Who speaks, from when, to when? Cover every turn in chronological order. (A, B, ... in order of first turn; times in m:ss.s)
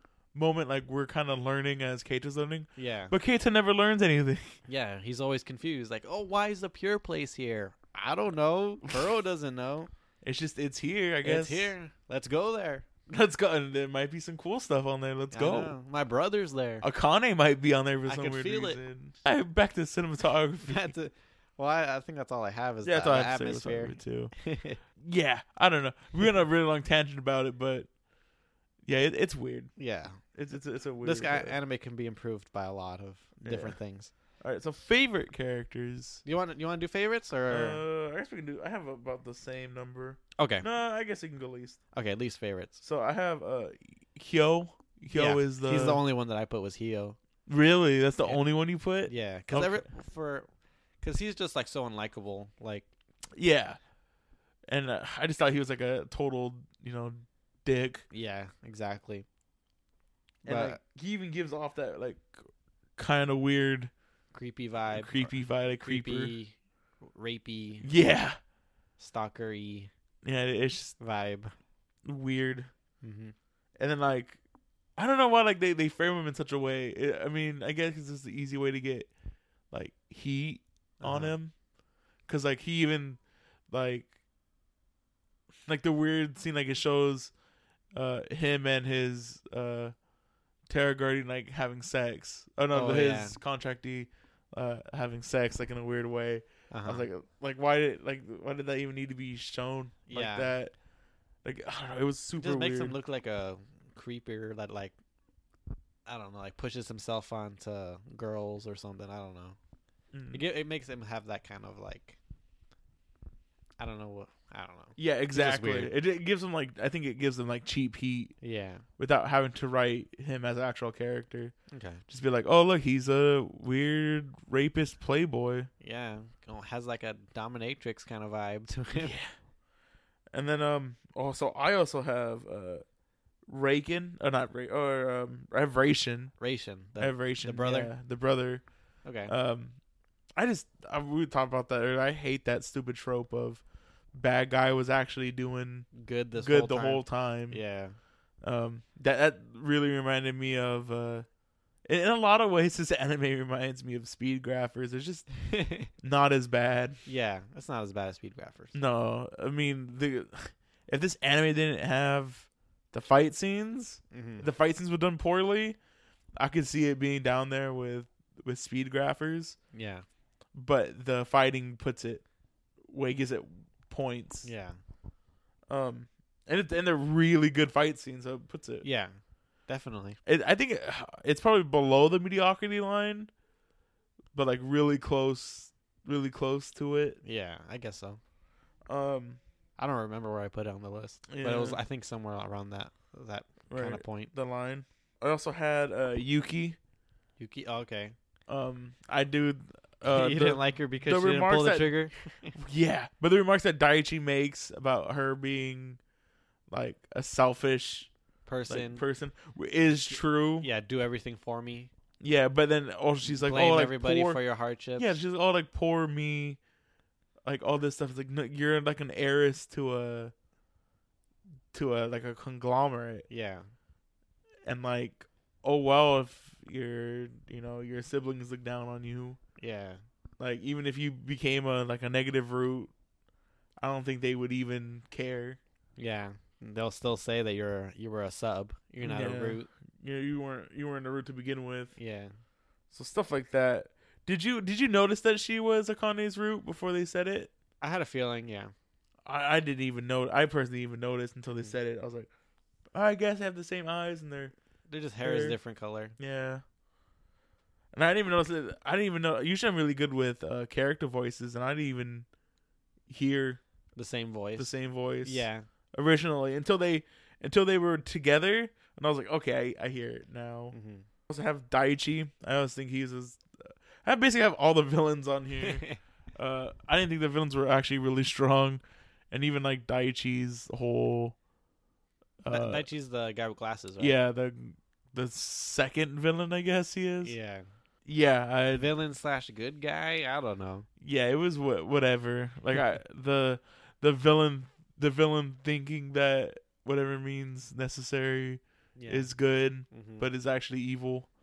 0:00.3-0:04.6 A
0:02.8-0:03.2 B
0:04.7-0:09.9 B
0:10.2-0:11.7 A
0:11.2-0:12.9 B
0:13.1-0:15.7 A
0:15.3-0:16.9 B
0:16.8-0:20.9 A
0:18.1-0:18.8 B
0:20.6-0:24.8 B
0:22.8-0:24.3 A
0:25.0-0:27.9 A
0:28.9-0:29.7 A
0:29.8-0:30.2 B
0:30.3-0:31.6 A
0:31.0-0:34.1 B
0:33.4-0:33.8 A
0:34.4-0:36.2 A
0:36.2-0:37.8 B
0:37.5-0:41.8 A
0:40.4-0:40.7 B
0:41.9-0:42.8 B
0:42.8-0:46.0 A
0:45.1-0:47.2 B
0:47.5-0:49.9 A
0:49.1-0:50.5 B
0:51.0-0:52.9 B
0:53.4-0:53.8 A
0:54.7-0:58.0 A
0:58.1-0:59.3 B
1:00.4-1:03.9 A
1:00.5-1:00.8 B
1:04.3-1:06.6 B
1:04.9-1:06.3 A
1:07.1-1:07.9 B
1:07.8-1:08.4 A
1:09.0-1:09.9 B
1:10.2-1:11.0 A
1:11.0-1:11.6 B
1:12.0-1:12.7 A
1:13.0-1:13.3 B
1:13.8-1:14.4 A
1:15.0-1:19.1 A
1:19.7-1:21.5 A
1:21.0-1:21.4 B
1:22.3-1:23.2 A
1:23.7-1:24.1 A
1:25.7-1:27.3 A
1:27.9-1:29.9 A
1:30.7-1:40.8 A
1:32.7-1:33.4 B
1:36.7-1:37.1 B
1:40.1-1:40.5 B
1:41.4-1:43.0 A
1:42.4-1:44.9 B
1:46.1-1:49.6 B
1:50.1-1:50.4 A
1:50.3-1:52.2 B
1:53.8-1:55.9 B
1:55.0-1:58.4 A
1:58.4-1:58.9 B
1:59.0-2:01.5 A
2:01.7-2:02.0 B
2:02.1-2:05.7 A
2:05.8-2:09.2 B
2:09.0-2:09.3 A
2:10.3-2:12.8 A
2:13.5-2:16.3 A
2:16.4-2:17.9 B
2:17.0-2:18.6 A
2:19.0-2:19.3 B
2:19.3-2:19.8 A
2:20.4-2:23.6 A
2:24.2-2:27.6 A
2:25.9-2:28.0 B
2:28.4-2:31.3 A
2:31.9-2:35.3 A
2:35.4-2:35.9 B
2:36.0-2:37.0 A
2:37.1-2:38.8 B
2:38.7-2:45.8 A
2:44.1-2:44.5 B
2:46.4-2:49.6 A
2:49.7-2:50.0 B
2:50.6-2:52.2 A
2:52.9-2:54.5 A
2:54.4-2:54.8 B
2:55.7-2:58.8 A
2:58.8-2:59.2 B
2:59.7-3:00.2 B
3:00.3-3:03.3 A
3:04.3-3:07.2 A
3:07.2-3:08.2 B
3:08.9-3:09.4 A
3:09.8-3:14.3 B
3:11.3-3:11.8 A
3:13.7-3:16.8 A
3:17.4-3:18.2 B
3:18.5-3:21.9 A
3:20.0-3:22.6 B
3:22.6-3:26.0 A
3:26.7-3:28.1 A
3:28.5-3:29.0 B
3:28.7-3:30.7 A
3:30.6-3:31.9 B
3:32.2-3:34.4 A
3:33.2-3:35.2 B
3:35.0-3:36.6 A
3:37.4-3:40.3 A
3:41.7-3:43.3 A
3:43.3-3:43.7 B
3:44.7-3:49.4 A
3:49.6-3:50.0 B
3:50.4-3:52.9 A
3:53.8-3:55.6 A
3:56.0-3:59.7 B
3:59.0-4:02.0 A
4:02.0-4:02.3 B
4:02.9-4:07.5 A
4:07.8-4:08.7 B
4:09.3-4:12.3 A
4:12.9-4:14.5 A
4:14.9-4:16.2 B
4:15.2-4:15.6 A
4:16.2-4:16.6 A
4:17.9-4:22.3 A
4:23.1-4:23.6 A
4:24.0-4:24.7 B
4:24.6-4:30.8 A
4:25.2-4:25.7 B
4:30.7-4:31.1 B
4:31.3-4:41.4 A
4:35.6-4:36.0 B
4:42.4-4:42.8 A
4:42.5-4:44.2 B
4:44.0-4:47.4 A
4:47.2-4:47.7 B
4:48.1-4:48.9 A
4:48.7-4:50.9 B
4:51.0-5:01.3 A
4:59.0-4:59.3 B
4:59.9-5:00.3 B